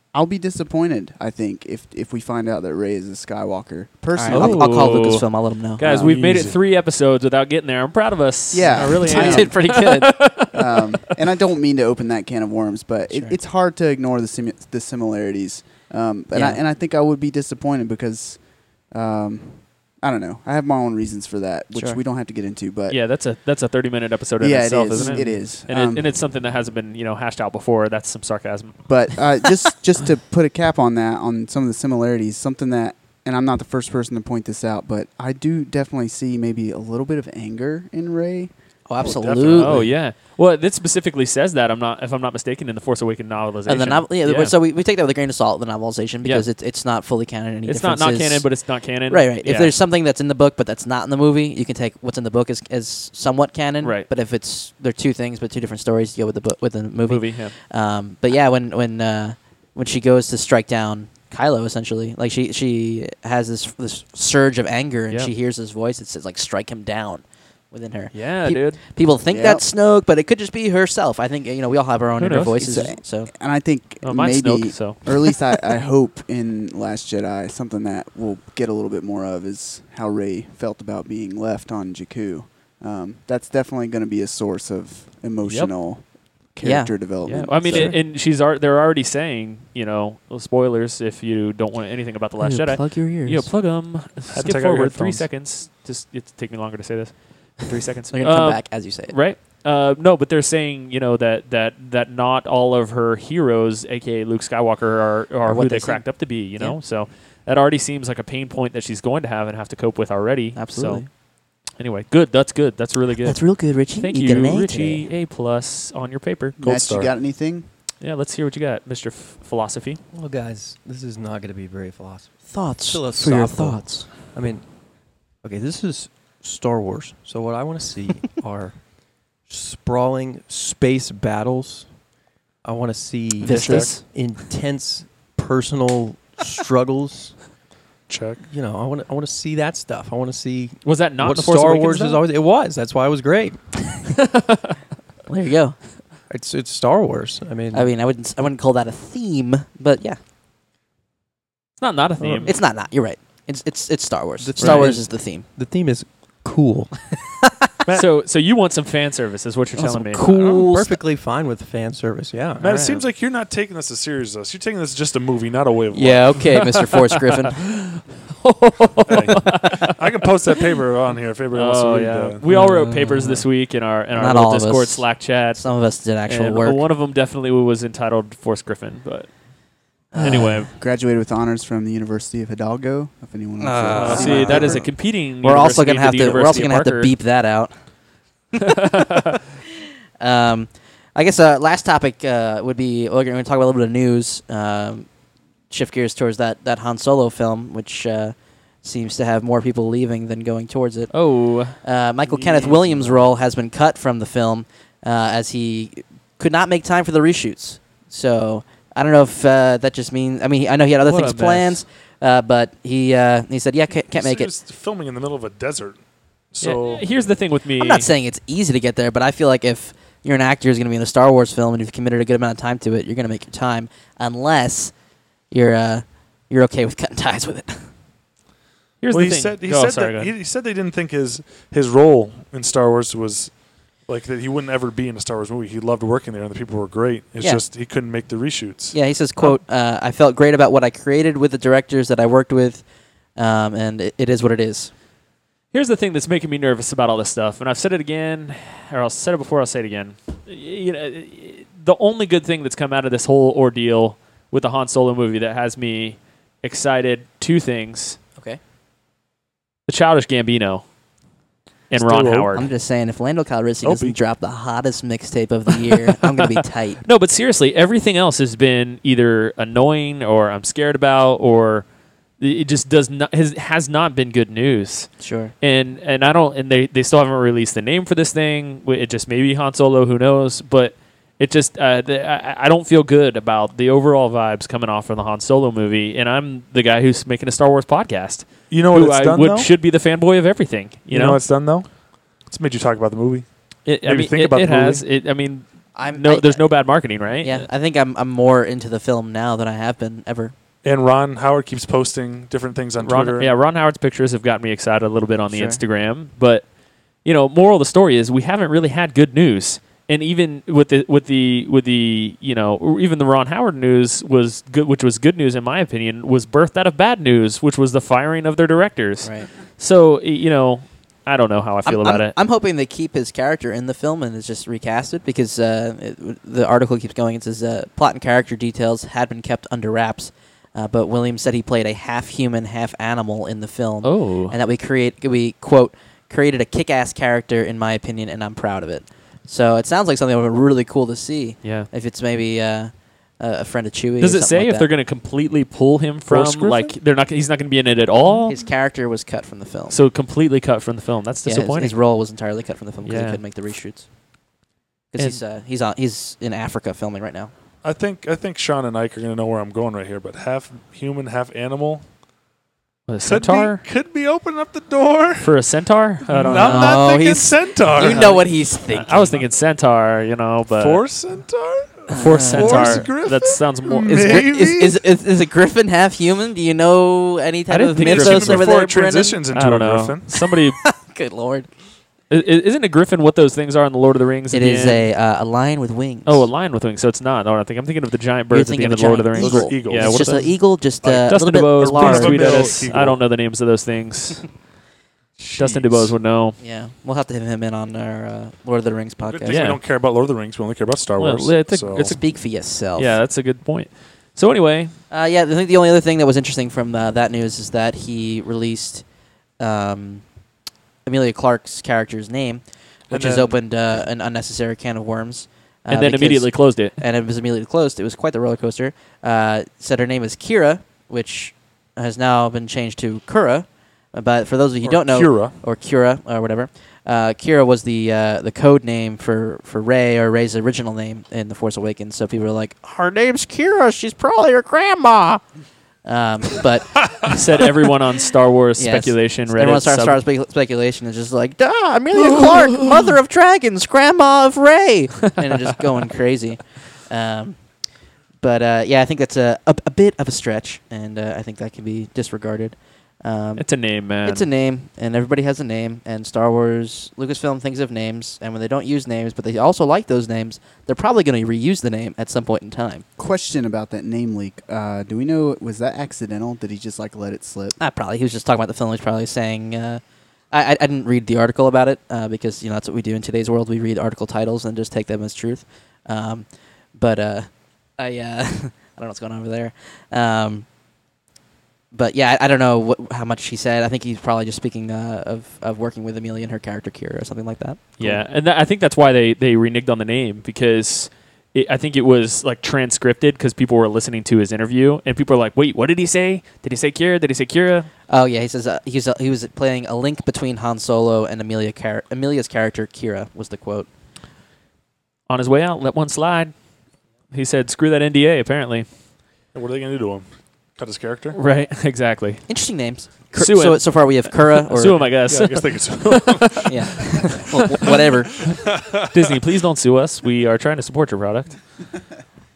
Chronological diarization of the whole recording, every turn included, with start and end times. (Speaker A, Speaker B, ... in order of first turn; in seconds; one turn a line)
Speaker A: 0.1-5.0
Speaker B: 4.1-5.8
Speaker C: 4.3-10.9
Speaker D: 5.8-6.6
Speaker A: 5.9-6.2
Speaker A: 8.5-23.0
Speaker B: 8.7-10.2
Speaker B: 13.1-13.4
Speaker B: 16.3-16.6
Speaker B: 21.7-22.0
Speaker C: 22.9-29.4
Speaker A: 24.4-26.1
Speaker A: 28.9-38.9
Speaker B: 38.9-40.0
Speaker D: 39.0-39.9
Speaker C: 39.5-44.5
Speaker B: 43.7-73.3
Speaker C: 46.2-46.5
Speaker C: 47.6-49.7
Speaker C: 53.8-54.1
Speaker C: 57.1-57.5
Speaker C: 68.1-68.8
Speaker A: 69.2-69.7
Speaker C: 72.2-72.6
Speaker A: 72.5-88.0
Speaker C: 74.0-75.4
Speaker C: 85.4-85.7
Speaker B: 86.6-88.0
Speaker C: 87.2-116.6
Speaker B: 92.4-93.5
Speaker D: 94.3-95.3
Speaker B: 98.1-99.2
Speaker B: 105.4-106.8
Speaker B: 110.5-111.1
Speaker B: 113.2-115.1
Speaker A: 116.6-117.7
Speaker D: 116.6-117.1
Speaker C: 118.0-120.0
Speaker E: 120.1-132.0
Speaker B: 122.5-124.3
Speaker E: 132.6-137.5
Speaker B: 133.4-134.1
Speaker D: 133.5-134.0
Speaker D: 138.1-138.4
Speaker E: 138.4-144.3
Speaker C: 140.8-142.2
Speaker B: 145.3-146.0
Speaker E: 146.3-147.9
Speaker B: 147.7-150.2
Speaker C: 151.8-152.6
Speaker E: 152.2-152.5
Speaker B: 152.4-155.5
Speaker E: 154.4-157.2
Speaker C: 154.6-155.0
Speaker C: 157.9-160.2
Speaker B: 159.8-161.0
Speaker D: 160.3-160.6
Speaker E: 160.4-162.9
Speaker D: 162.6-166.7
Speaker C: 162.7-163.1
Speaker B: 165.9-167.8
Speaker C: 168.4-169.7
Speaker D: 169.1-172.5
Speaker C: 171.5-180.7
Speaker B: 172.5-176.8
Speaker B: 180.1-180.7
Speaker A: 180.2-184.9
Speaker B: 183.6-188.2
Speaker C: 184.0-187.1
Speaker B: 190.2-195.2
Speaker B: 195.7-214.5
Speaker C: 201.1-201.8
Speaker D: 202.2-203.2
Speaker C: 211.1-211.8
Speaker D: 213.9-217.2
Speaker C: 216.6-218.1
Speaker B: 217.8-225.0
Speaker B: 225.5-227.9
Speaker C: 229.0-230.3
Speaker D: 229.1-239.0
Speaker B: 238.9-244.9
Speaker C: 245.7-258.2
Speaker C: 259.9-261.0
Speaker C: 261.9-262.7
Speaker D: 262.0-262.7
Speaker B: 262.5-267.1
Speaker D: 263.8-264.2
Speaker C: 267.0-291.4
Speaker B: 275.2-275.5
Speaker D: 288.7-289.7
Speaker D: 291.1-295.0
Speaker C: 293.9-297.7
Speaker B: 295.9-300.6
Speaker D: 300.8-303.5
Speaker C: 303.0-322.4
Speaker B: 305.5-305.8
Speaker B: 319.2-319.5
Speaker B: 321.9-344.9
Speaker C: 334.0-334.5
Speaker C: 341.6-341.9
Speaker C: 344.2-348.6
Speaker D: 346.3-346.9
Speaker D: 348.2-348.5
Speaker B: 348.5-350.0
Speaker C: 349.9-352.0
Speaker B: 351.4-354.1
Speaker C: 353.0-353.4
Speaker B: 355.1-357.5
Speaker C: 355.2-355.4
Speaker D: 357.8-362.2
Speaker C: 363.1-363.8
Speaker D: 363.2-365.7
Speaker C: 365.4-367.0
Speaker D: 366.3-368.6
Speaker B: 366.5-369.4
Speaker C: 368.0-371.0
Speaker D: 370.7-375.0
Speaker C: 372.1-374.5
Speaker B: 372.1-373.3
Speaker B: 374.1-379.4
Speaker C: 377.7-378.7
Speaker D: 378.0-380.4
Speaker C: 379.5-380.8
Speaker B: 380.3-381.8
Speaker C: 382.3-385.1
Speaker B: 384.5-386.5
Speaker C: 386.2-394.6
Speaker B: 388.5-392.9
Speaker D: 389.4-393.2
Speaker D: 395.4-396.1
Speaker C: 395.5-396.6
Speaker B: 396.6-399.7
Speaker D: 399.3-402.2
Speaker C: 399.5-399.8
Speaker C: 401.2-404.9
Speaker B: 401.9-403.2
Speaker B: 405.1-410.4
Speaker B: 411.0-437.4
Speaker D: 413.1-414.0
Speaker C: 415.9-416.9
Speaker D: 424.8-425.6
Speaker C: 437.3-440.2
Speaker B: 438.8-463.1
Speaker C: 453.6-454.5
Speaker A: 463.2-467.8
Speaker B: 467.8-480.7
Speaker B: 481.9-488.2
Speaker C: 488.0-497.9
Speaker B: 498.1-503.9
Speaker C: 505.3-508.9
Speaker D: 509.5-511.4
Speaker C: 511.3-517.2
Speaker B: 512.5-515.1
Speaker D: 515.0-517.3
Speaker B: 516.6-518.4
Speaker C: 519.1-521.6